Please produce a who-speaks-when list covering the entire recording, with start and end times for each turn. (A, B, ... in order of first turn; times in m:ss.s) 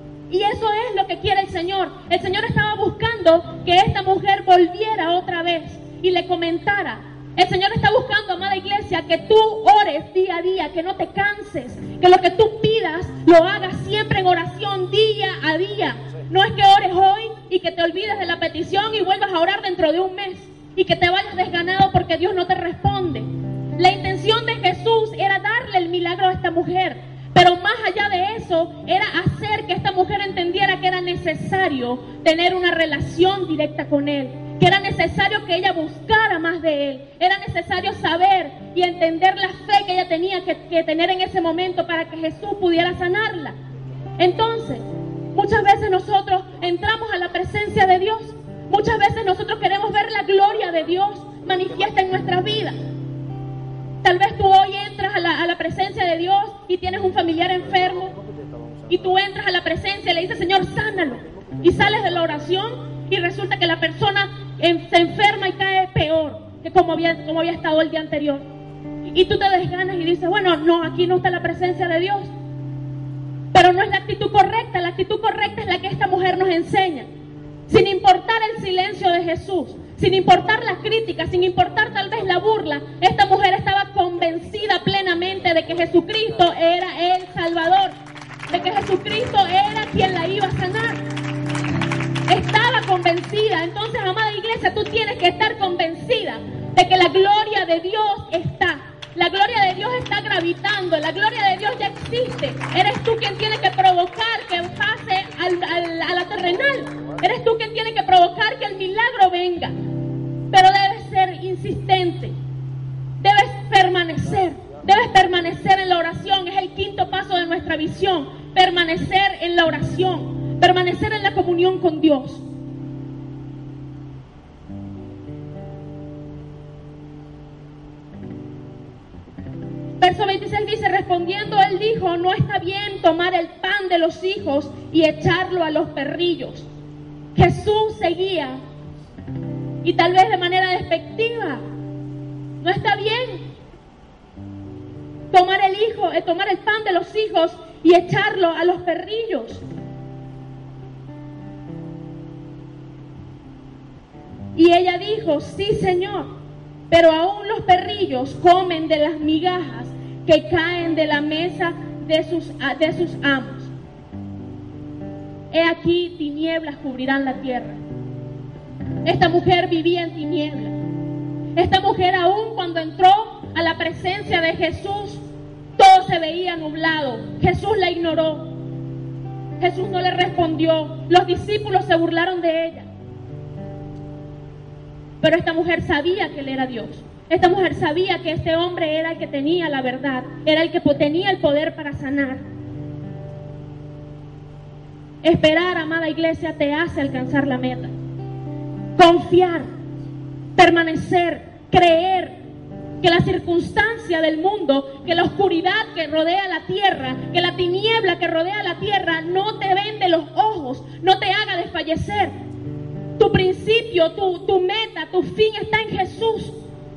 0:00.3-0:43.6 A
0:44.2-0:52.8 A
0:54.0-0:58.2 A
0:58.9-1:08.4 A
1:09.1-1:12.3 A
1:13.5-1:17.1 A
1:17.7-1:28.0 A
1:28.5-1:31.1 A
1:32.3-1:49.7 A
1:50.5-1:52.4 A
1:53.2-2:02.4 A
2:10.0-2:16.7 A
2:17.4-2:18.6 A
2:19.8-2:21.6 A
2:22.6-2:23.5 A
2:25.3-2:29.6 A
2:34.6-2:36.4 A
2:36.9-2:43.7 A
2:45.5-2:47.8 A
2:49.0-2:50.8 A
2:51.6-2:55.2 A
2:55.8-2:58.6 A
2:59.6-3:02.9 A
3:05.2-3:12.4 A
3:15.2-3:17.9 A
3:19.0-3:19.7 A
3:20.6-3:22.4 A
3:23.0-3:32.3 A
3:33.2-3:36.6 A